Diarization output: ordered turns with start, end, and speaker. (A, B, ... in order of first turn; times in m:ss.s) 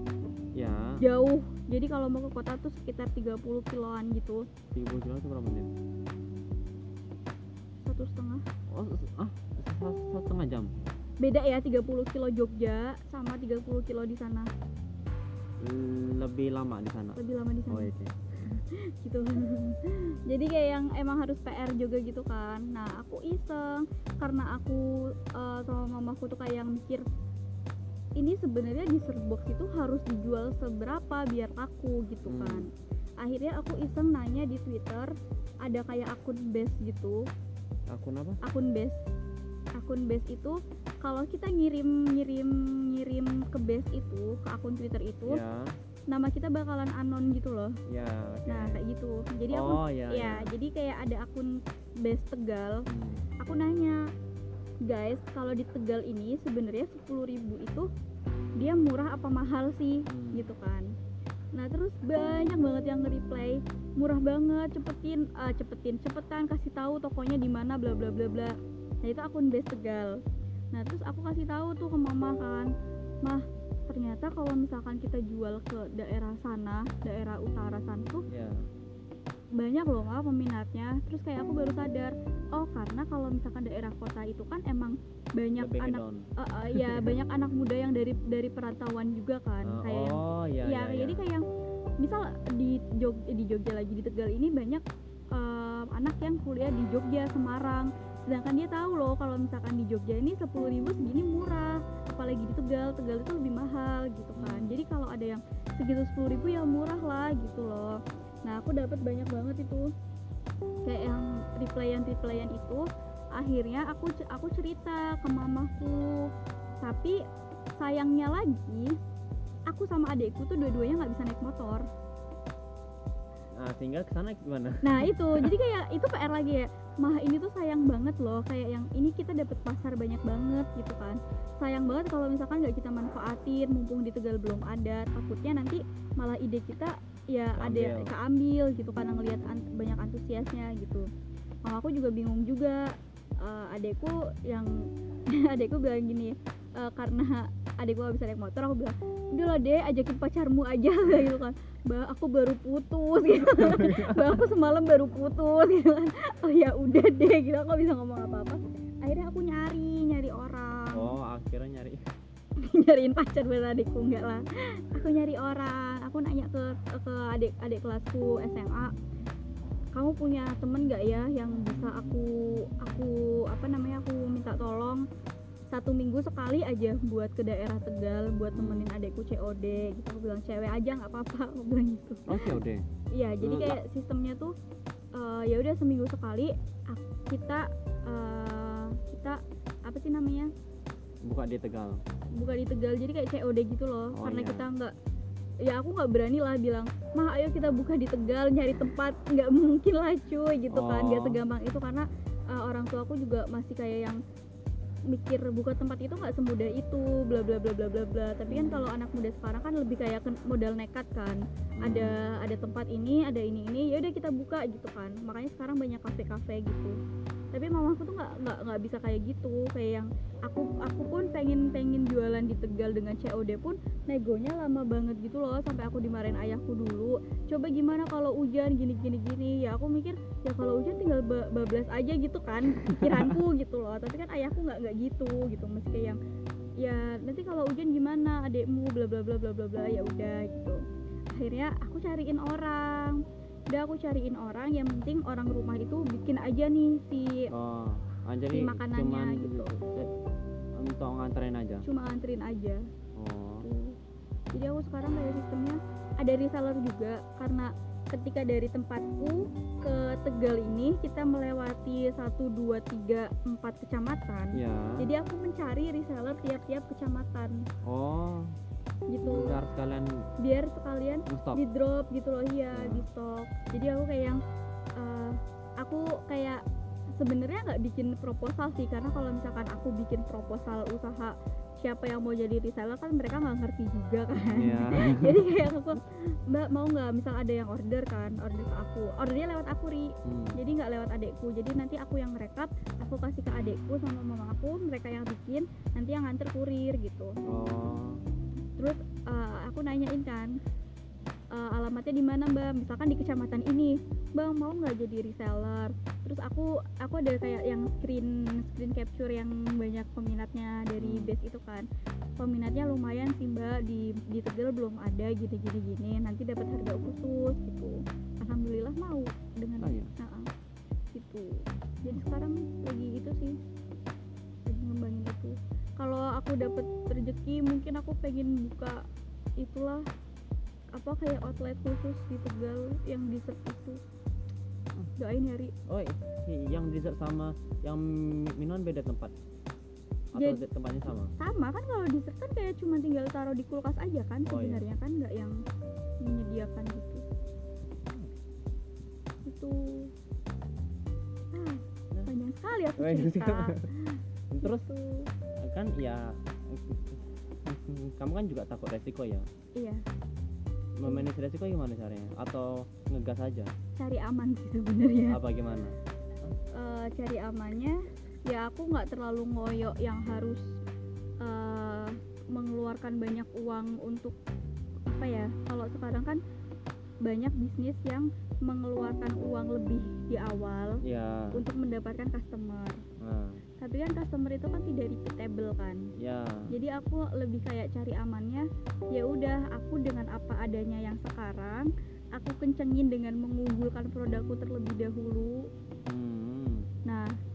0:00.6-0:01.0 A
0:01.0-0:04.4 B
0:04.7-0:05.7 A
0:07.8-0:08.4 B
0:08.7-0:10.7 A
0:11.2-0:14.5 B
0:15.6-0:18.1 A
0:17.2-0:27.1 B
0:28.2-0:32.7 B
0:32.3-0:32.7 A
0:33.2-0:35.1 B
0:35.6-0:37.3 B
0:37.9-0:38.4 A
0:38.4-0:39.0 B
0:39.8-0:45.4 B
0:45.2-0:45.7 A
0:46.1-0:47.8 B
0:47.9-0:48.8 A
0:48.5-0:52.9 B
0:49.5-0:50.5 A
0:52.9-0:53.2 A
0:53.4-0:54.0 B
0:54.9-0:57.9 B
0:58.6-1:00.9 B
1:00.1-1:00.5 A
1:01.5-1:10.2 B
1:10.7-1:12.7 B
1:13.2-1:18.3 B
1:18.3-1:18.7 A
1:19.6-1:31.4 B
1:25.6-1:27.2 A
1:29.6-1:31.2 A
1:32.0-1:49.9 B
1:44.4-1:44.8 A
1:50.8-1:56.3 B
1:56.8-1:57.2 B
1:57.8-1:59.0 B
1:59.7-2:01.9 B
2:03.6-2:05.5 A
2:04.8-2:21.1 B
2:17.6-2:18.1 A
2:21.6-2:41.1 B
2:33.6-2:34.4 A
2:40.9-2:42.0 A
2:42.6-2:48.9 B
2:50.0-2:55.0 B
2:55.7-3:02.5 B
2:58.5-2:58.9 A
3:02.3-3:02.8 A
3:03.1-3:04.5 B
3:03.4-3:03.8 A
3:05.1-3:10.5 B
3:11.2-3:12.0 A
3:12.4-3:14.9 B
3:14.1-3:14.7 A
3:15.6-3:24.2 B
3:20.7-3:21.4 A
3:25.1-3:37.0 B
3:28.5-3:28.9 A
3:31.8-3:32.2 A
3:37.5-3:56.2 B
3:52.8-3:53.3 A
3:56.8-4:00.8 B
4:01.4-4:07.5 B
4:07.5-4:10.1 A
4:08.5-4:09.7 B
4:10.8-4:11.8 A
4:11.8-4:12.8 B
4:13.2-4:13.7 A
4:13.6-4:14.0 B
4:14.5-4:27.6 B
4:24.5-4:25.1 A
4:27.8-4:28.5 A
4:29.1-4:29.6 B
4:29.2-4:30.3 A
4:30.4-4:34.4 B
4:31.3-4:31.6 A
4:32.7-4:33.1 A
4:35.0-4:36.6 B
4:37.2-4:57.3 B
4:44.5-4:45.4 A
4:50.2-4:50.6 A
4:57.5-4:58.2 A
4:58.8-5:00.6 B
5:01.5-5:11.9 B
5:11.0-5:11.3 A
5:12.4-5:20.5 B
5:19.8-5:20.1 A
5:21.1-5:23.6 B
5:24.7-5:29.0 B
5:29.6-5:30.1 B
5:31.0-5:34.0 B
5:35.2-5:35.7 B
5:35.9-5:39.3 A
5:40.3-5:41.3 A
5:40.4-5:40.6 B
5:41.4-5:45.6 B
5:44.5-5:44.8 A
5:46.2-5:47.2 B
5:49.5-5:50.1 B
5:51.5-5:55.3 B
5:53.0-5:53.9 A
5:54.5-5:54.9 A
5:55.6-5:59.5 A
5:59.8-6:00.0 B
6:01.0-6:03.7 A
6:04.0-6:05.4 B
6:05.3-6:06.5 A
6:06.8-6:10.7 B
6:11.4-6:14.4 B
6:15.1-6:16.4 B
6:17.2-6:21.0 B
6:21.0-6:21.6 A
6:21.5-6:23.0 B
6:23.2-6:23.6 A
6:23.8-6:26.1 B
6:26.2-6:26.7 A
6:26.7-6:35.7 B
6:36.1-6:36.9 A
6:37.1-6:37.3 B